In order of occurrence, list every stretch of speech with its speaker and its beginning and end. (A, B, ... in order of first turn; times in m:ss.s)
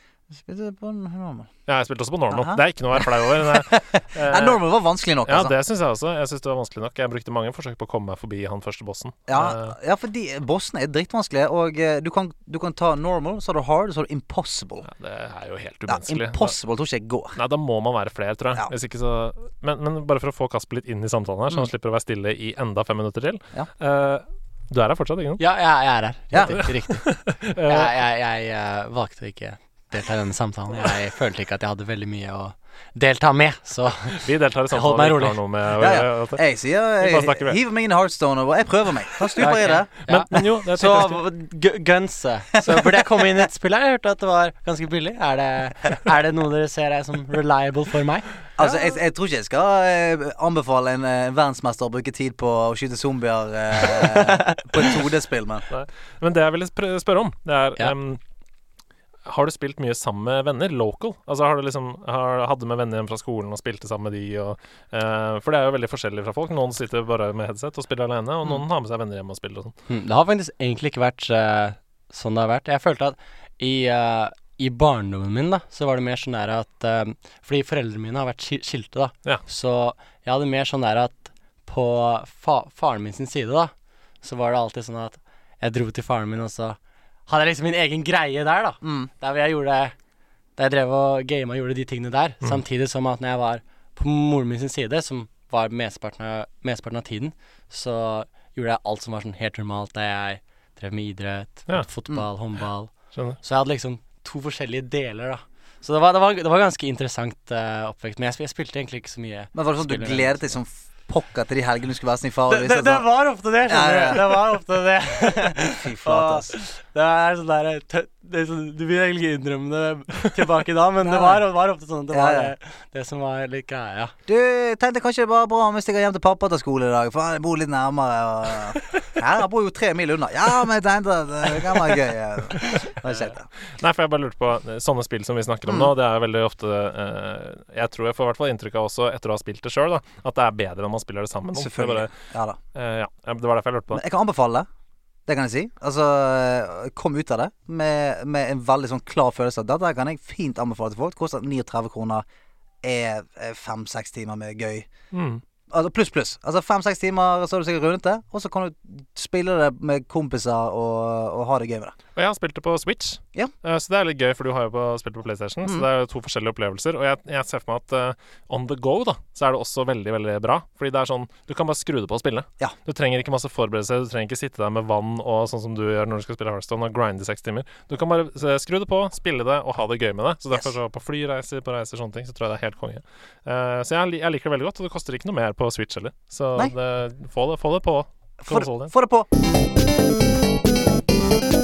0:00.3-0:01.5 A
0:01.7-0:04.6 B
0:02.3-0:05.5 A
0:05.2-0:09.8 B
0:09.3-0:14.8 A
0:14.8-0:16.5 B
0:15.9-0:17.4 A
0:17.3-0:25.4 B
0:25.4-0:27.0 C
0:26.3-0:26.6 A
0:26.5-0:27.9 B
0:27.6-0:35.4 C
0:34.1-0:37.6 B
0:35.8-0:40.5 A
0:39.2-0:41.2 B
0:39.4-0:48.3 C
0:48.6-0:55.7 A
0:54.1-0:54.6 C
0:55.7-0:58.2 B
0:59.2-1:09.7 B
1:09.9-1:23.7 C
1:24.2-1:29.9 C
1:28.8-1:29.1 A
1:30.6-1:50.6 C
1:43.1-1:43.4 B
1:49.5-1:53.0 A
1:52.5-2:04.1 C
1:53.7-1:54.4 A
1:55.7-1:56.5 A
2:01.0-2:01.4 A
2:02.1-2:02.5 A
2:04.3-2:13.5 A
2:12.7-2:13.2 C
2:13.8-2:22.1 B
2:15.6-2:15.9 A
2:21.5-2:22.6 A
2:22.7-2:24.0 B
2:23.9-2:24.7 A
2:25.3-2:32.2 A
2:32.8-2:34.9 A
2:35.1-2:35.4 B
2:35.7-2:41.9 A
2:42.2-3:08.9 B
3:08.4-3:09.3 A